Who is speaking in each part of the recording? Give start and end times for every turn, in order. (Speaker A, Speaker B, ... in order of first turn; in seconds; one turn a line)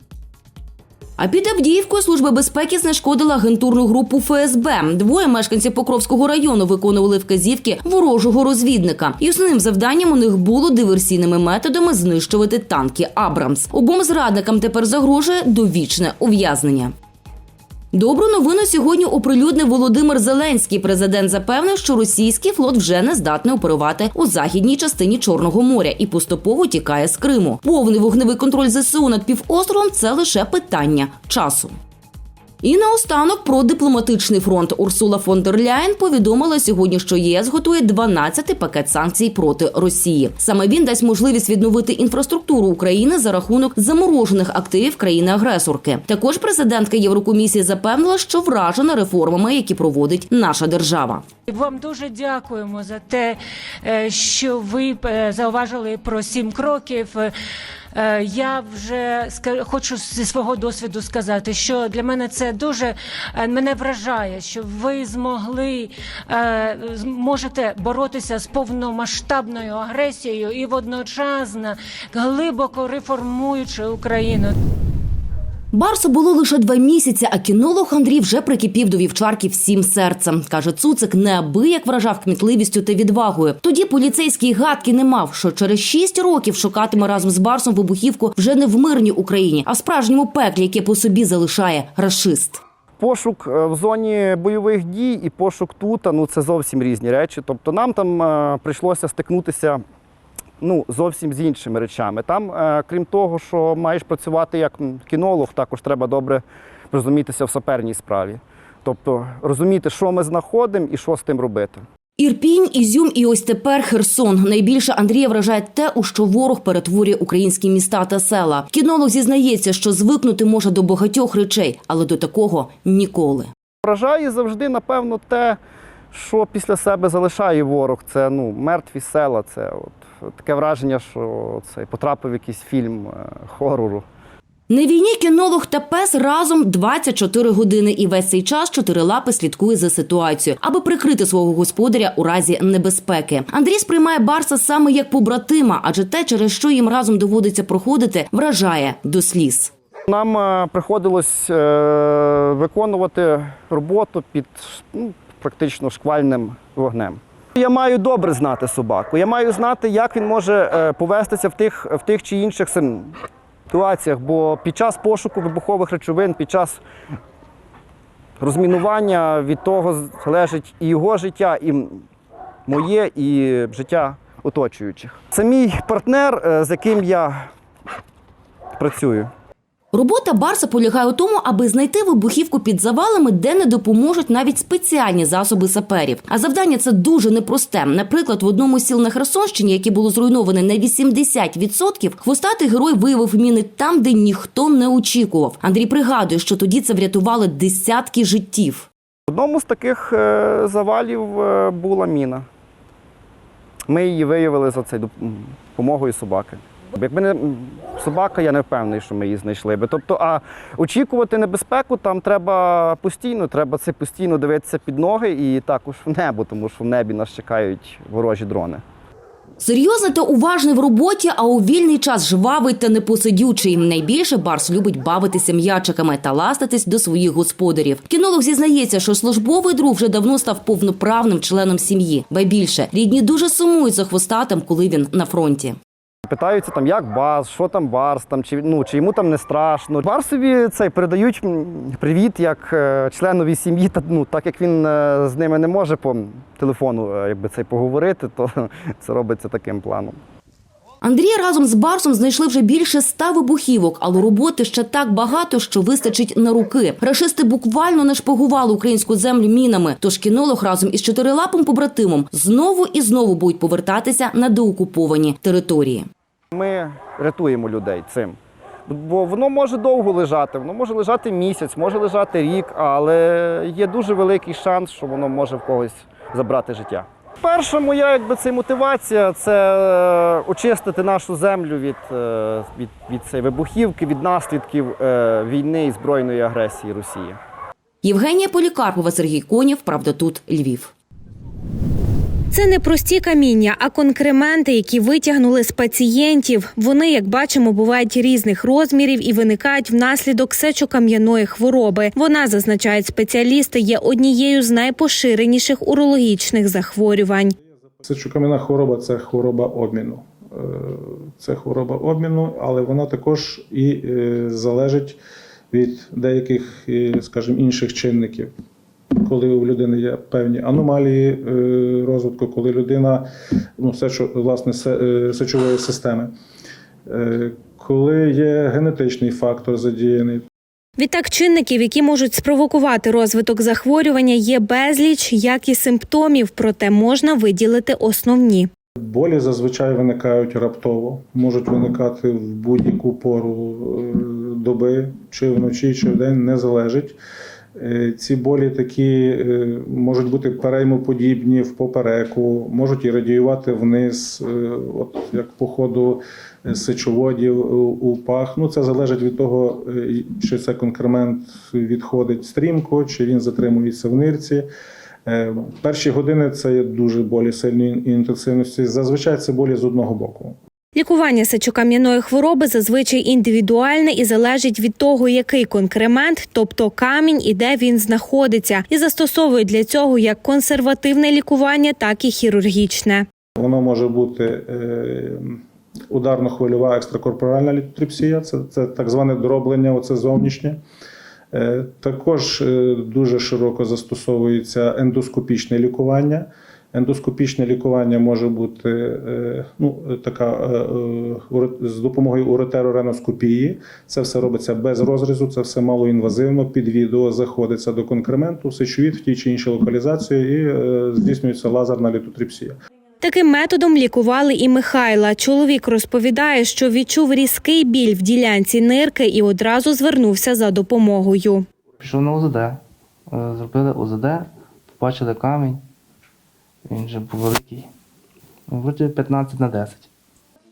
Speaker A: 1.2-16.9
Speaker A: 17.9-31.7
Speaker A: 32.6-51.2
Speaker B: 51.5-57.3
Speaker B: 57.9-74.5
Speaker A: 75.7-92.6
Speaker C: 93.0-99.8
Speaker C: 100.6-111.8
Speaker A: 112.2-123.5
Speaker C: 123.8-125.6
Speaker C: 126.1-134.0
Speaker A: 134.7-149.7
Speaker C: 150.1-163.1
Speaker C: 163.7-166.8
Speaker C: 168.4-172.0
Speaker C: 172.7-177.5
Speaker C: 178.8-179.3
Speaker A: 179.9-198.9
Speaker C: 199.3-202.4
Speaker C: 203.9-218.8
Speaker A: 219.6-235.8
Speaker C: 236.3-250.2
Speaker A: 251.0-266.1
Speaker C: 266.5-268.4
Speaker C: 268.9-287.4
Speaker A: 288.0-290.9
Speaker D: 292.5-307.5
Speaker E: 308.0-315.2
Speaker E: 315.7-318.5
Speaker E: 319.2-323.3
Speaker E: 323.8-326.3
Speaker E: 327.1-330.4
Speaker D: 331.0-338.7
Speaker E: 339.0-347.2
Speaker E: 347.8-364.6
Speaker E: 365.2-370.6
Speaker D: 370.9-383.2
Speaker E: 383.6-390.8
Speaker E: 391.5-412.7
Speaker D: 413.2-421.6
Speaker F: 422.0-425.8
Speaker F: 426.9-427.9
Speaker F: 428.7-430.1